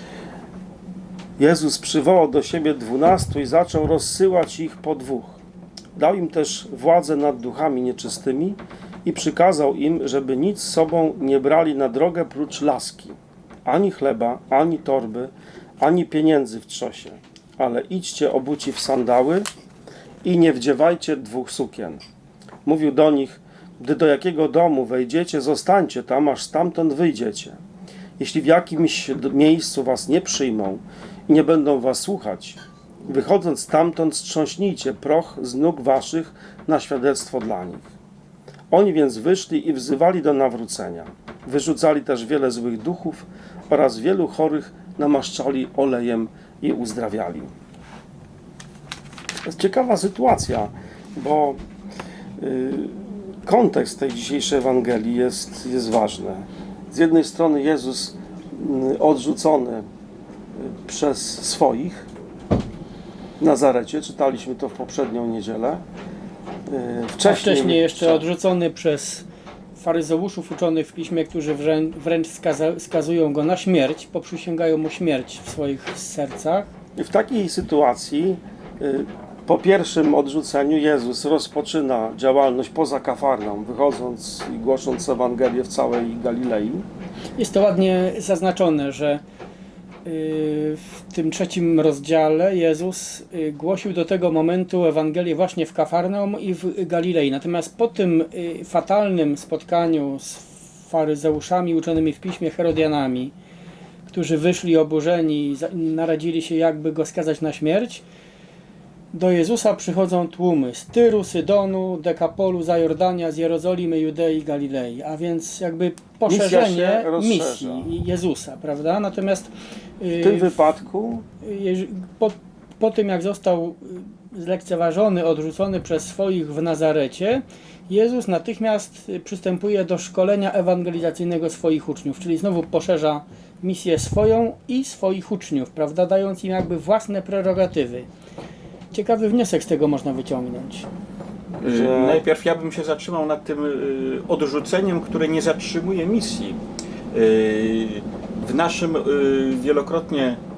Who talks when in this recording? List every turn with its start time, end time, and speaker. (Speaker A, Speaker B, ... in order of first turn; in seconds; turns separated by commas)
Speaker A: 1.4-5.4, Speaker A: 6.0-19.5, Speaker A: 20.2-22.0, Speaker A: 22.7-27.6, Speaker A: 28.2-37.9, Speaker A: 38.7-47.5, Speaker A: 49.5-51.6, Speaker A: 52.4-59.9, Speaker A: 60.6-62.1, Speaker A: 63.4-65.8, Speaker A: 66.7-68.3, Speaker B: 67.2-76.7, Speaker A: 77.0-86.9, Speaker B: 87.4-89.2, Speaker B: 90.0-103.3, Speaker B: 104.1-108.0, Speaker B: 109.1-120.6, Speaker A: 116.3-117.9, Speaker A: 120.2-121.2, Speaker B: 121.4-138.1, Speaker B: 138.9-140.9, Speaker A: 141.6-142.2, Speaker C: 141.6-146.6, Speaker C: 147.1-150.4